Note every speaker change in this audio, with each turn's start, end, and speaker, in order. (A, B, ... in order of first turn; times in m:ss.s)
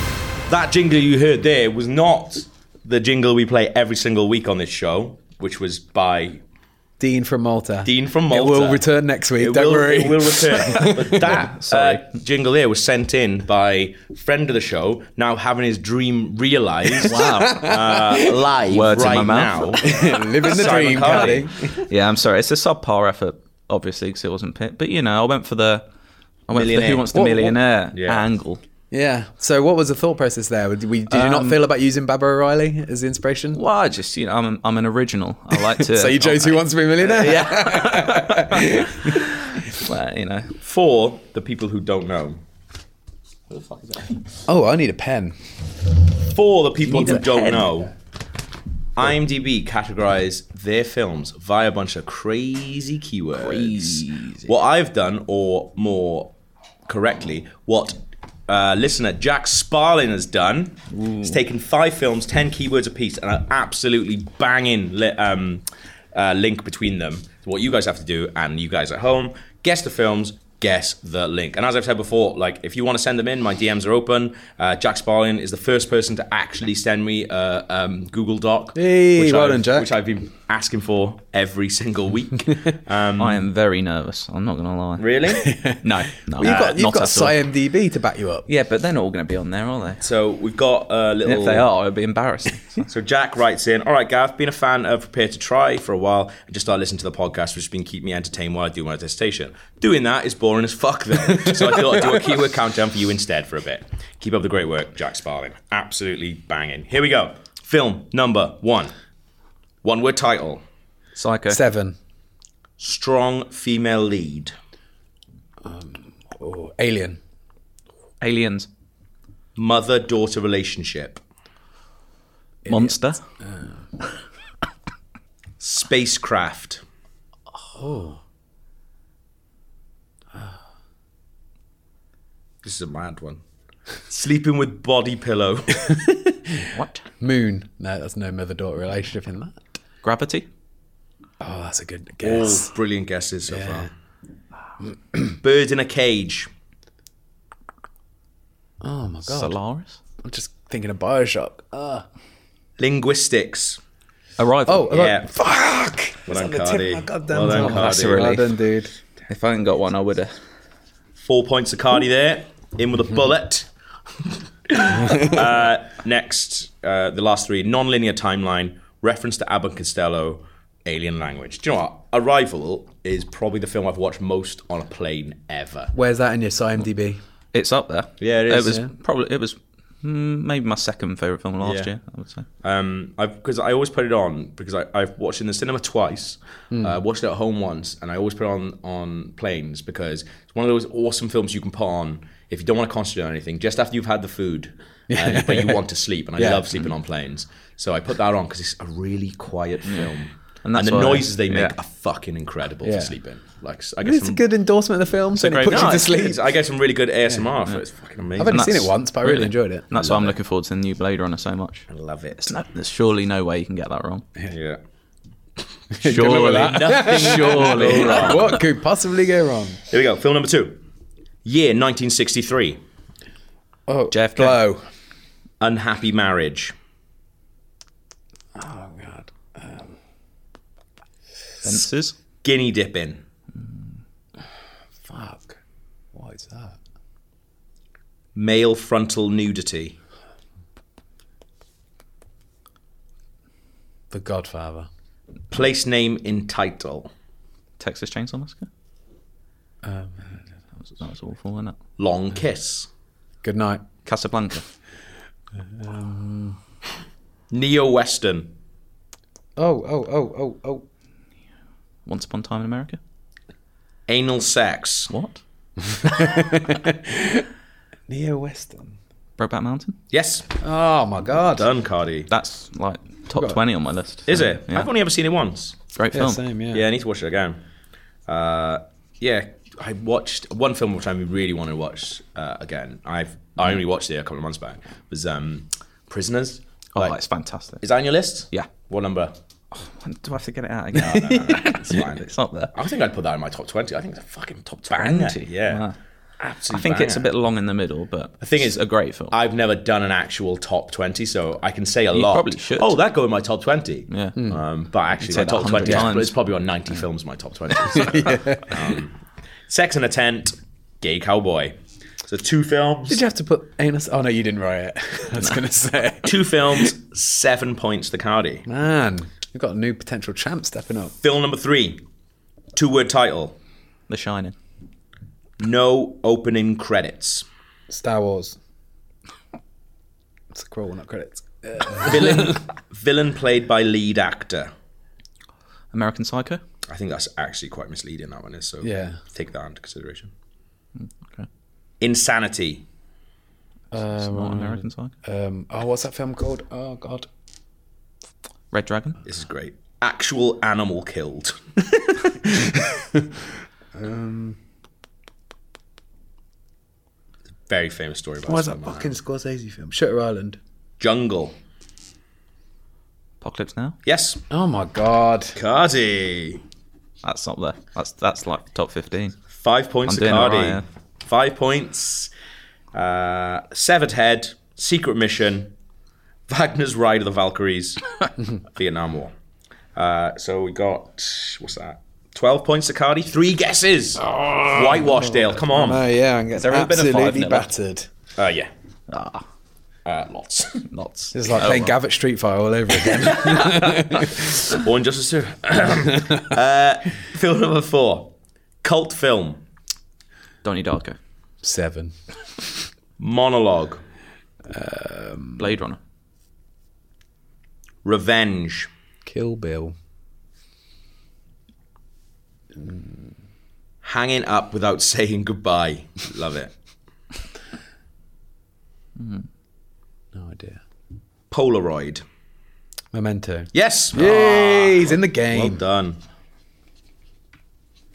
0:00.5-0:06.4 A
0:07.0-0:11.3 B
0:07.8-0:08.8 A
0:09.4-0:21.5 A
0:11.2-0:12.1 C
0:17.0-0:18.2 B
0:17.0-0:17.7 C
0:18.7-0:19.8 C
0:19.8-0:21.8 B
0:20.6-0:25.8 C
0:26.5-0:28.6 C
0:26.5-0:28.2 A
0:27.1-0:27.5 B
0:28.9-0:33.6 B
0:31.1-0:31.6 C
0:33.5-0:40.6 C
0:35.5-0:39.6 B
0:40.6-0:42.4 A
0:43.5-0:44.2 A
0:44.4-0:45.4 B
0:46.2-0:47.9 A
0:46.9-0:47.8 C
0:49.0-0:56.3 A
0:53.4-0:54.5 C
0:56.9-1:23.4 A
1:01.0-1:01.3 C
1:18.7-1:19.9 B
1:23.2-1:27.4 C
1:25.0-1:25.5 A
1:25.4-1:28.5 B
1:26.4-1:26.7 A
1:28.5-1:30.0 C
1:30.0-1:31.6 A
1:31.2-1:32.9 C
1:32.9-1:48.9 A
1:41.5-1:41.9 B
1:49.8-1:50.6 A
1:51.2-1:51.6 C
1:51.5-1:52.0 B
1:52.8-1:54.5 A
1:55.6-1:57.2 B
1:58.2-1:58.7 C
1:59.6-2:01.2 A
2:02.6-2:03.7 B
2:02.7-2:03.2 C
2:05.6-2:06.8 A
2:07.6-2:08.2 B
2:12.6-2:13.4 A
2:14.1-2:15.8 A
2:15.8-2:16.7 B
2:16.7-2:17.0 C
2:17.2-2:19.6 B
2:20.0-2:20.5 C
2:21.4-2:22.7 B
2:22.2-2:23.9 A
2:23.5-2:23.9 B
2:25.3-2:26.5 A
2:28.8-2:29.6 B
2:29.2-2:30.0 C
2:30.2-2:32.0 B
2:32.8-2:33.8 A
2:34.4-2:35.1 C
2:34.6-2:38.9 B
2:34.9-2:35.3 A
2:36.3-2:38.3 A
2:37.5-2:38.5 C
2:39.3-2:40.3 C
2:41.2-2:43.7 A
2:44.7-2:55.9 A
2:55.9-2:57.2 B
2:57.5-3:02.5 C
2:58.2-2:58.8 A
3:01.6-3:01.9 A
3:02.6-3:24.4 A
3:06.7-3:07.0 B
3:15.1-3:15.8 B
3:16.4-3:16.6 B
3:19.9-3:20.1 C
3:20.6-3:21.7 C
3:22.8-3:23.1 B
3:24.0-3:26.4 B
3:25.4-3:26.0 C
3:25.5-3:28.7 A
3:28.4-3:29.9 B
3:28.4-3:31.9 C
3:29.9-3:30.3 A
3:31.9-3:32.5 A
3:32.4-3:34.2 C
3:34.4-3:34.8 A
3:35.9-3:39.8 B
3:36.0-3:38.5 C
3:36.3-3:38.6 A
3:39.9-3:40.8 A
3:41.4-3:42.8 A
3:43.9-3:44.8 B
3:44.1-3:44.6 C
3:45.6-3:46.7 A
3:48.5-3:50.0 B
3:51.6-3:52.1 C
3:52.4-3:53.2 A
3:55.0-3:55.6 B
3:56.1-3:56.8 B
3:58.3-4:00.0 A
4:04.1-4:04.9 B
4:05.5-4:07.1 A
4:07.8-4:08.7 C
4:09.8-4:10.4 B
4:10.9-4:11.8 C
4:12.0-4:12.9 A
4:13.4-4:13.8 B
4:14.0-4:14.6 C
4:15.5-4:16.6 B
4:17.5-4:18.5 A
4:19.6-4:20.8 B
4:22.0-4:23.0 C
4:24.1-4:25.1 A
4:25.1-4:25.4 C
4:25.8-4:27.5 B
4:28.1-4:29.0 B
4:29.4-4:30.0 C
4:30.1-4:30.5 A
4:30.6-4:31.7 B
4:31.5-4:32.3 A
4:32.3-4:34.9 C
4:33.3-4:33.6 B
4:34.3-4:35.8 A
4:35.9-4:36.4 C
4:36.1-4:36.8 B
4:36.7-4:37.6 A
4:38.3-4:47.2 A
4:47.0-4:47.8 C
4:47.8-4:49.3 A
4:49.7-4:52.7 C
4:50.9-4:55.8 A
4:54.9-4:55.9 C
4:56.4-4:57.3 A
4:56.7-4:59.3 C
4:58.4-5:09.2 A
5:02.1-5:02.9 C
5:04.1-5:04.4 C
5:04.4-5:04.6 B
5:05.2-5:06.4 C
5:07.9-5:08.8 B
5:09.7-5:13.2 A
5:13.1-5:16.9 B
5:16.2-5:18.6 A
5:18.7-5:21.1 B
5:21.2-5:22.0 A
5:22.8-5:23.6 A
5:24.1-5:24.5 C
5:25.6-5:27.4 A
5:27.9-5:28.6 B
5:30.5-5:32.6 B
5:32.0-5:34.7 A
5:35.9-5:36.6 C
5:36.9-5:40.3 A
5:38.8-5:39.2 B
5:41.0-5:41.5 C
5:42.0-5:42.8 A
5:43.9-5:47.3 B
5:44.2-5:45.1 C
5:48.7-5:49.2 C
5:49.2-5:51.8 A
5:52.6-5:53.2 B
5:53.9-5:54.6 B
5:57.7-5:59.1 A
5:58.4-6:00.6 B
6:01.0-6:01.6 A
6:03.4-6:04.0 C
6:04.0-6:04.4 A
6:04.5-6:05.6 B
6:05.6-6:06.6 A
6:07.2-6:09.4 C
6:09.5-6:12.3 A
6:10.1-6:10.8 C
6:12.9-6:15.7 A
6:16.5-6:18.0 A
6:18.7-6:19.3 A
6:20.0-6:26.0 A
6:24.3-6:28.1 B
6:26.6-6:27.7 C
6:28.4-6:28.7 A
6:29.1-6:29.4 C
6:30.0-6:30.9 A
6:30.9-6:31.9 C
6:31.3-6:34.5 B
6:34.6-6:39.6 A
6:40.6-6:41.2 C
6:41.6-6:42.2 B
6:43.2-6:44.0 A
6:44.7-6:45.7 B
6:45.6-6:46.0 C
6:48.0-6:48.9 A
6:49.2-6:49.9 B
6:52.7-6:53.3 B
6:54.0-6:56.7 A
6:59.2-6:59.4 C
7:00.3-7:00.8 B
7:01.5-7:02.2 A
7:03.1-7:05.8 B
7:03.7-7:06.2 A